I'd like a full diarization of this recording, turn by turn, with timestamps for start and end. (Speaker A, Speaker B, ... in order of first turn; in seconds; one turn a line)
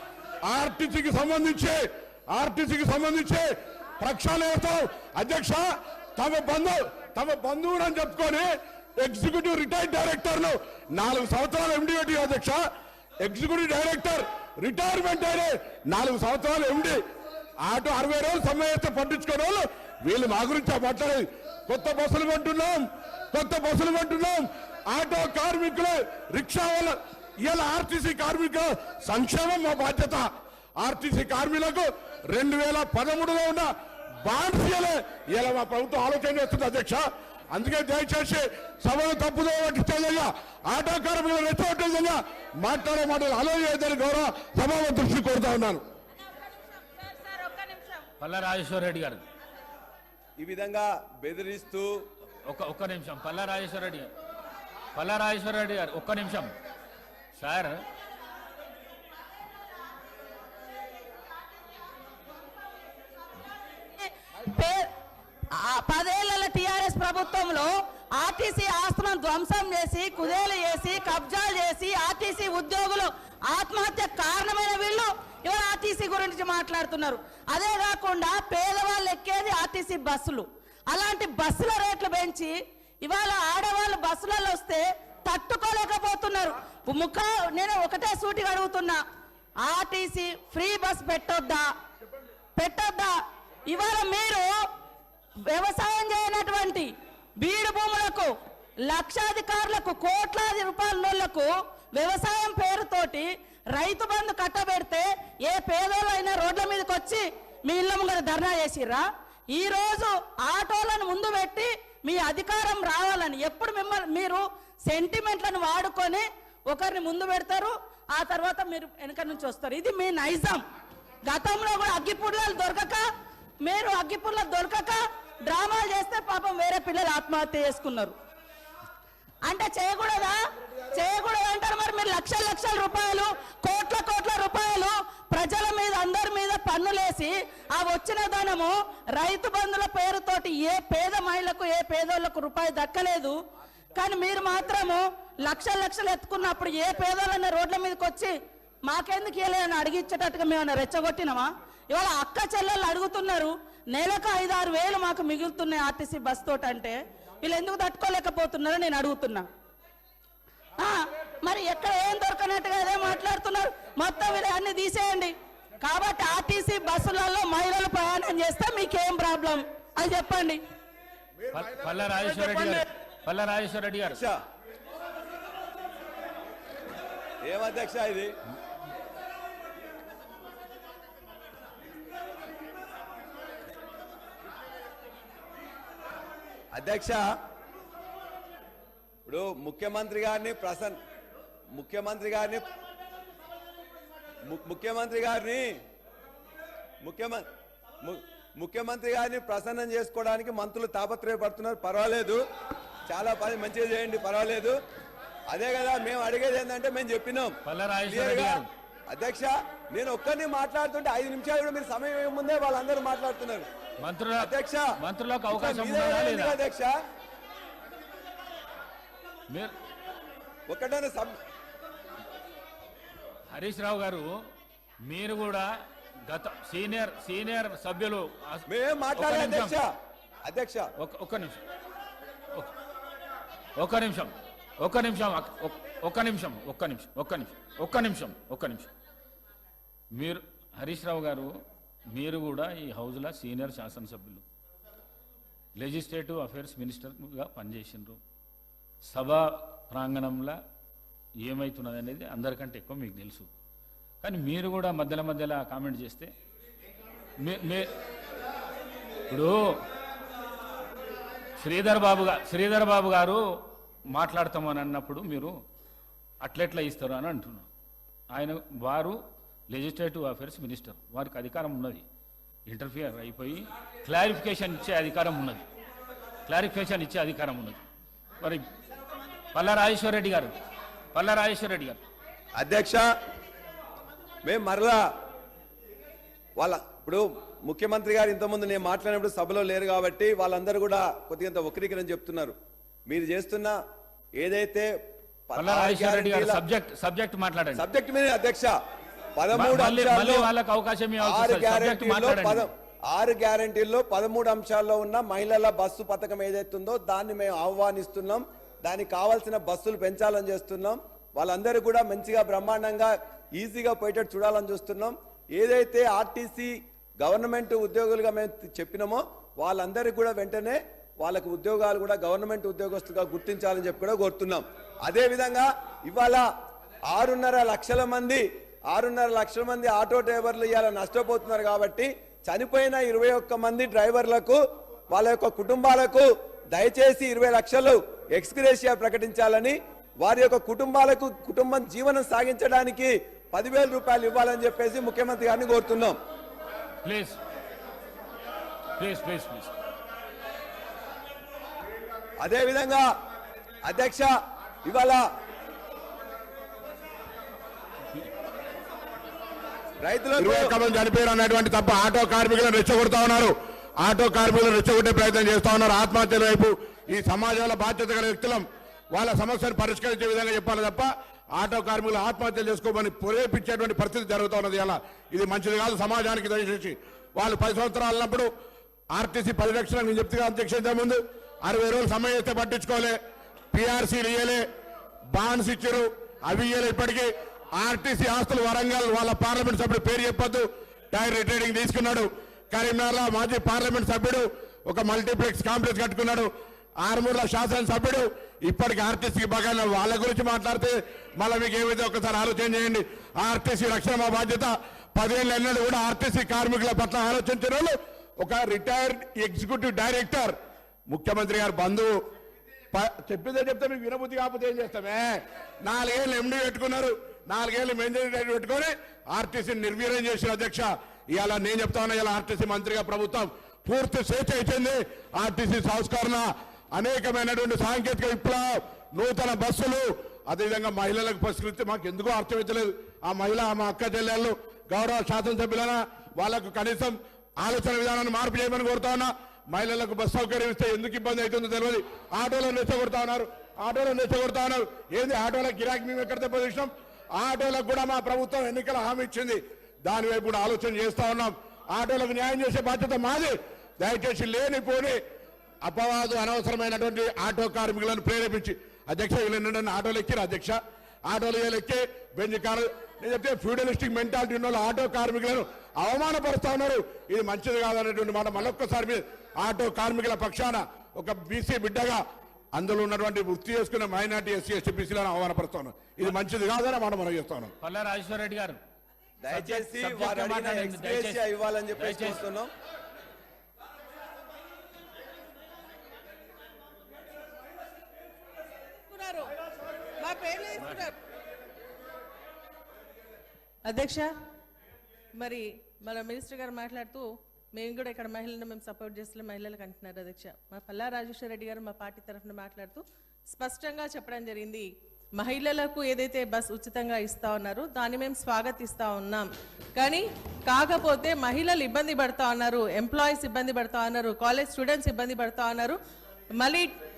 Speaker A: 0.5-3.5
Speaker A: 4.0-5.7
Speaker A: 6.2-12.6
Speaker A: 13.2-17.0
Speaker A: 17.6-30.2
Speaker A: 30.8-33.7
Speaker A: 34.2-45.8
Speaker B: 47.3-47.6
Speaker C: 48.2-49.2
Speaker D: 50.4-51.9
Speaker C: 52.4-54.1
Speaker C: 54.9-56.5
Speaker C: 57.4-57.8
Speaker B: 64.0-64.9
Speaker B: 65.5-89.0
Speaker B: 89.6-91.7
Speaker B: 92.5-93.1
Speaker B: 93.7-94.6
Speaker B: 95.5-98.3
Speaker B: 98.9-120.6
Speaker B: 121.2-123.0
Speaker B: 123.6-128.1
Speaker B: 129.4-130.4
Speaker B: 130.9-143.4
Speaker B: 143.9-148.3
Speaker B: 148.8-159.5
Speaker B: 160.8-170.6
Speaker C: 171.5-174.2
Speaker D: 174.1-174.4
Speaker D: 177.4-178.3
Speaker D: 186.7-187.2
Speaker D: 189.2-191.0
Speaker D: 191.7-192.6
Speaker D: 194.5-195.7
Speaker D: 197.0-197.4
Speaker D: 198.0-202.4
Speaker D: 203.1-204.8
Speaker D: 205.5-207.6
Speaker C: 207.6-208.7
Speaker D: 208.1-213.7
Speaker C: 214.0-216.6
Speaker D: 214.4-214.9
Speaker D: 215.5-216.9
Speaker C: 219.5-219.7
Speaker D: 220.7-221.3
Speaker C: 223.5-224.5
Speaker C: 225.1-229.8
Speaker D: 228.7-229.9
Speaker D: 230.4-230.9
Speaker C: 231.0-231.6
Speaker C: 233.8-238.9
Speaker C: 240.1-244.4
Speaker C: 245.8-248.2
Speaker C: 249.0-250.6
Speaker C: 251.4-253.5
Speaker C: 254.2-256.3
Speaker C: 257.4-257.9
Speaker C: 259.3-259.8
Speaker C: 261.6-265.6
Speaker C: 266.4-267.7
Speaker C: 268.3-272.1
Speaker C: 272.7-275.6
Speaker C: 276.5-277.8
Speaker C: 278.4-278.7
Speaker C: 279.5-280.5
Speaker C: 281.1-282.0
Speaker D: 282.5-283.0
Speaker D: 284.4-285.0
Speaker D: 286.6-292.5
Speaker D: 293.1-293.8
Speaker D: 294.4-294.9
Speaker D: 295.5-296.6
Speaker C: 295.5-297.9
Speaker D: 297.7-298.7
Speaker D: 299.4-300.5
Speaker C: 299.5-302.7
Speaker D: 301.2-326.4
Speaker D: 327.1-346.2
Speaker C: 347.0-347.4
Speaker C: 349.0-349.7
Speaker D: 352.4-353.1
Speaker D: 353.8-354.3
Speaker D: 354.8-355.2
Speaker D: 360.0-360.7
Speaker A: 360.4-378.5
Speaker A: 379.1-383.1
Speaker A: 383.7-384.6
Speaker A: 385.3-396.5
Speaker A: 397.0-410.5
Speaker A: 411.1-412.1
Speaker A: 412.9-455.2
Speaker A: 455.8-472.2
Speaker A: 472.7-477.7
Speaker C: 477.8-478.8
Speaker D: 479.4-482.7
Speaker C: 479.5-482.4
Speaker E: 489.1-489.5
Speaker E: 490.2-491.1
Speaker E: 493.9-494.3
Speaker E: 495.4-504.9
Speaker E: 505.4-516.0
Speaker E: 516.6-516.9